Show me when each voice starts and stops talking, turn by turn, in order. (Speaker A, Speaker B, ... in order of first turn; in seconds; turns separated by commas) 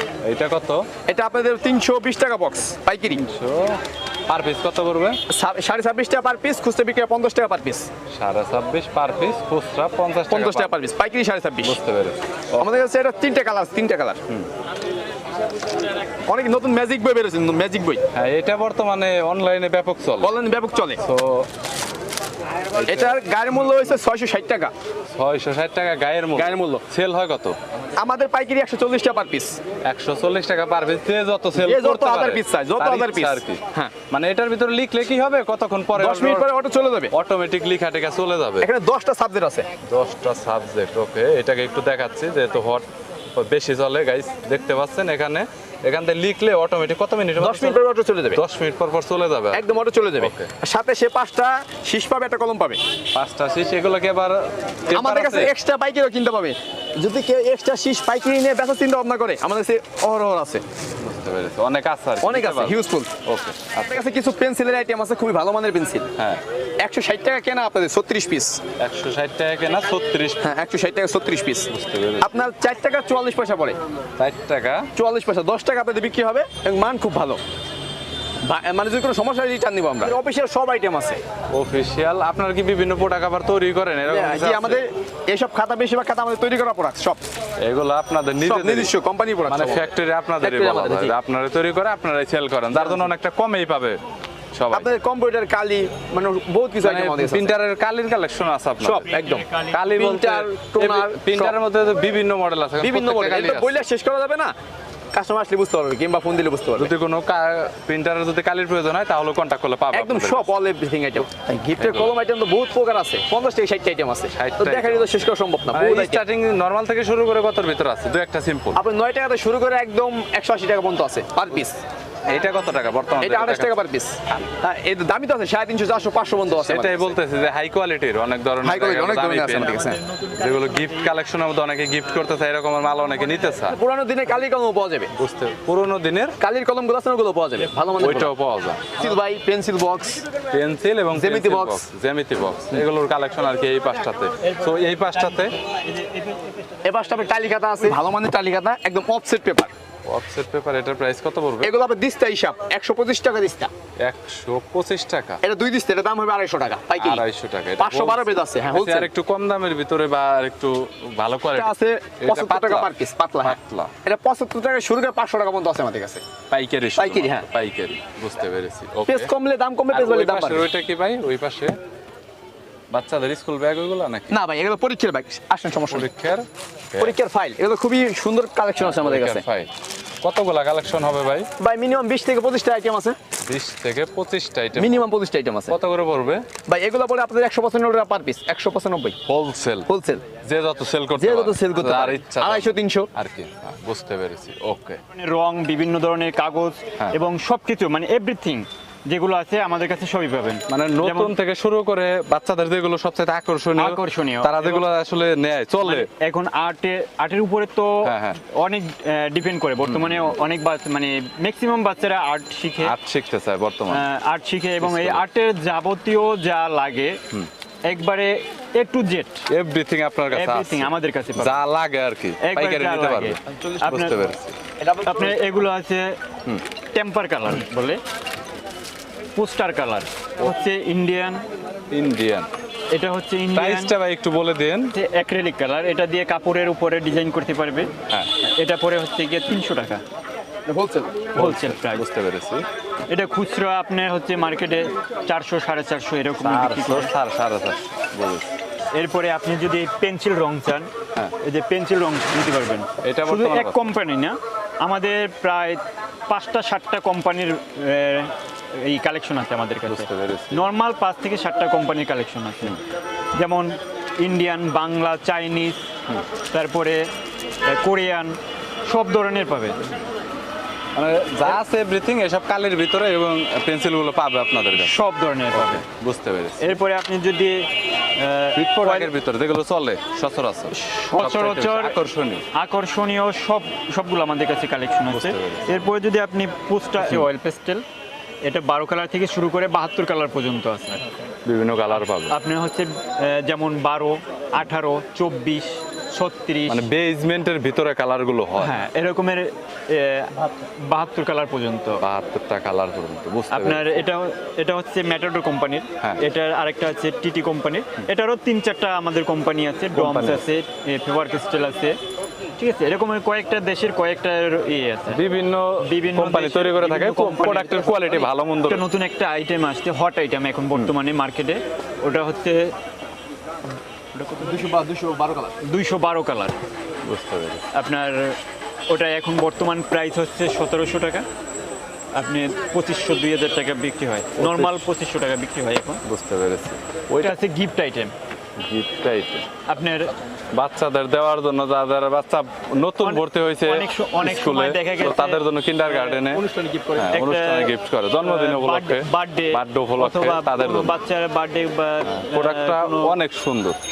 Speaker A: 0.2-0.9, Speaker B: 1.1-3.2, Speaker A: 3.1-5.2, Speaker B: 5.3-7.9, Speaker A: 8.1-10.8, Speaker B: 10.3-11.8, Speaker A: 11.6-12.8, Speaker B: 12.6-14.2, Speaker B: 16.3-18.0, Speaker A: 18.1-20.3, Speaker B: 20.2-21.0, Speaker A: 21.0-21.5, Speaker A: 22.8-23.2, Speaker B: 22.9-24.7, Speaker A: 25.2-27.6, Speaker B: 26.4-26.8, Speaker B: 28.0-29.6, Speaker A: 29.9-36.5, Speaker B: 31.6-33.9, Speaker B: 35.9-37.1, Speaker A: 37.1-38.7, Speaker B: 38.6-39.7, Speaker A: 39.9-47.8, Speaker B: 47.4-48.4, Speaker A: 48.3-49.6, Speaker B: 49.5-52.8, Speaker A: 50.2-50.5, Speaker A: 53.1-55.5, Speaker B: 54.9-60.6, Speaker A: 61.0-63.9, Speaker B: 62.2-63.1, Speaker B: 63.9-66.1, Speaker B: 66.8-68.6, Speaker A: 68.8-70.5, Speaker B: 70.4-71.7, Speaker A: 71.7-72.3, Speaker B: 72.2-73.8, Speaker A: 74.2-74.9, Speaker B: 75.0-77.4, Speaker B: 78.4-81.2, Speaker A: 81.5-84.8, Speaker B: 84.1-87.3, Speaker A: 87.6-88.9, Speaker B: 88.4-91.2, Speaker A: 89.5-94.0, Speaker B: 92.7-93.1, Speaker A: 94.5-94.9, Speaker B: 94.7-97.5, Speaker A: 96.8-99.1, Speaker B: 98.8-101.6, Speaker C: 99.1-99.8, Speaker A: 99.7-103.8, Speaker B: 102.8-104.5, Speaker B: 105.1-106.9, Speaker A: 106.8-110.5, Speaker B: 109.9-116.2, Speaker A: 111.8-112.2, Speaker A: 114.4-118.8, Speaker B: 118.7-121.8, Speaker A: 122.3-123.7, Speaker B: 123.2-127.2, Speaker A: 126.6-133.8, Speaker B: 128.6-130.0, Speaker B: 133.7-135.1, Speaker A: 135.2-136.4, Speaker B: 136.4-138.3, Speaker A: 138.0-139.0, Speaker B: 139.0-140.2, Speaker A: 140.5-145.5, Speaker B: 141.1-141.9, Speaker C: 145.6-146.6, Speaker B: 146.8-149.7, Speaker A: 150.1-151.8, Speaker B: 151.6-153.7, Speaker A: 154.0-155.4, Speaker B: 155.4-157.2, Speaker A: 157.0-163.9, Speaker B: 157.8-159.1, Speaker B: 161.5-166.2, Speaker A: 166.5-169.3, Speaker B: 167.0-167.5, Speaker B: 169.1-170.7, Speaker A: 169.9-171.8, Speaker A: 172.9-174.4, Speaker B: 174.3-176.1, Speaker A: 175.9-177.2, Speaker B: 177.0-179.4, Speaker A: 178.8-179.7, Speaker A: 180.2-181.5, Speaker B: 181.6-183.2, Speaker A: 183.4-185.1, Speaker B: 184.8-185.8, Speaker A: 185.7-186.4, Speaker B: 186.7-189.2, Speaker A: 189.3-189.9, Speaker B: 189.9-190.2, Speaker A: 190.4-195.0, Speaker B: 191.2-193.1, Speaker C: 195.1-201.3, Speaker A: 200.7-206.1, Speaker C: 203.8-204.9, Speaker C: 205.8-212.9, Speaker A: 208.0-208.4, Speaker A: 209.8-210.3, Speaker A: 212.8-214.0, Speaker C: 213.9-217.2, Speaker A: 214.8-215.2, Speaker C: 217.8-219.4, Speaker A: 219.5-224.6, Speaker C: 220.3-221.6, Speaker C: 222.4-224.3, Speaker B: 224.8-225.6, Speaker C: 225.1-226.2, Speaker C: 226.9-228.0, Speaker C: 229.3-231.4, Speaker A: 231.9-232.5, Speaker C: 232.9-233.9, Speaker A: 233.5-234.9, Speaker C: 234.9-237.9, Speaker C: 238.5-240.0, Speaker B: 240.7-241.3, Speaker C: 241.3-242.0, Speaker A: 241.4-242.7, Speaker C: 243.1-247.1, Speaker A: 246.4-248.5, Speaker C: 248.9-250.9, Speaker C: 251.4-262.8, Speaker A: 253.0-253.9, Speaker A: 259.9-260.7, Speaker C: 263.3-265.9, Speaker C: 266.5-267.1, Speaker C: 267.6-269.8, Speaker A: 270.9-274.9, Speaker C: 274.8-275.8, Speaker A: 275.5-276.8, Speaker C: 276.6-279.1, Speaker A: 278.6-282.4, Speaker C: 280.7-282.0, Speaker C: 282.5-287.9, Speaker A: 285.1-285.9, Speaker C: 288.4-291.0, Speaker A: 291.4-292.3, Speaker C: 291.9-296.9, Speaker A: 296.7-298.8, Speaker C: 298.6-302.0, Speaker A: 302.0-304.0, Speaker C: 303.5-312.0, Speaker A: 309.9-310.4, Speaker C: 312.6-315.2, Speaker A: 315.1-318.8, Speaker C: 315.8-322.8, Speaker C: 324.2-324.4, Speaker B: 324.3-325.6, Speaker C: 325.6-326.6, Speaker A: 327.0-327.6, Speaker C: 327.7-328.4, Speaker C: 328.9-331.3, Speaker C: 332.1-336.0, Speaker A: 334.4-334.9, Speaker A: 336.0-337.4, Speaker C: 337.2-338.1, Speaker A: 338.6-339.5, Speaker C: 339.7-340.1, Speaker A: 340.5-346.4, Speaker C: 343.0-346.2, Speaker B: 346.3-347.2, Speaker A: 347.0-351.0, Speaker C: 347.1-353.2, Speaker A: 352.1-353.8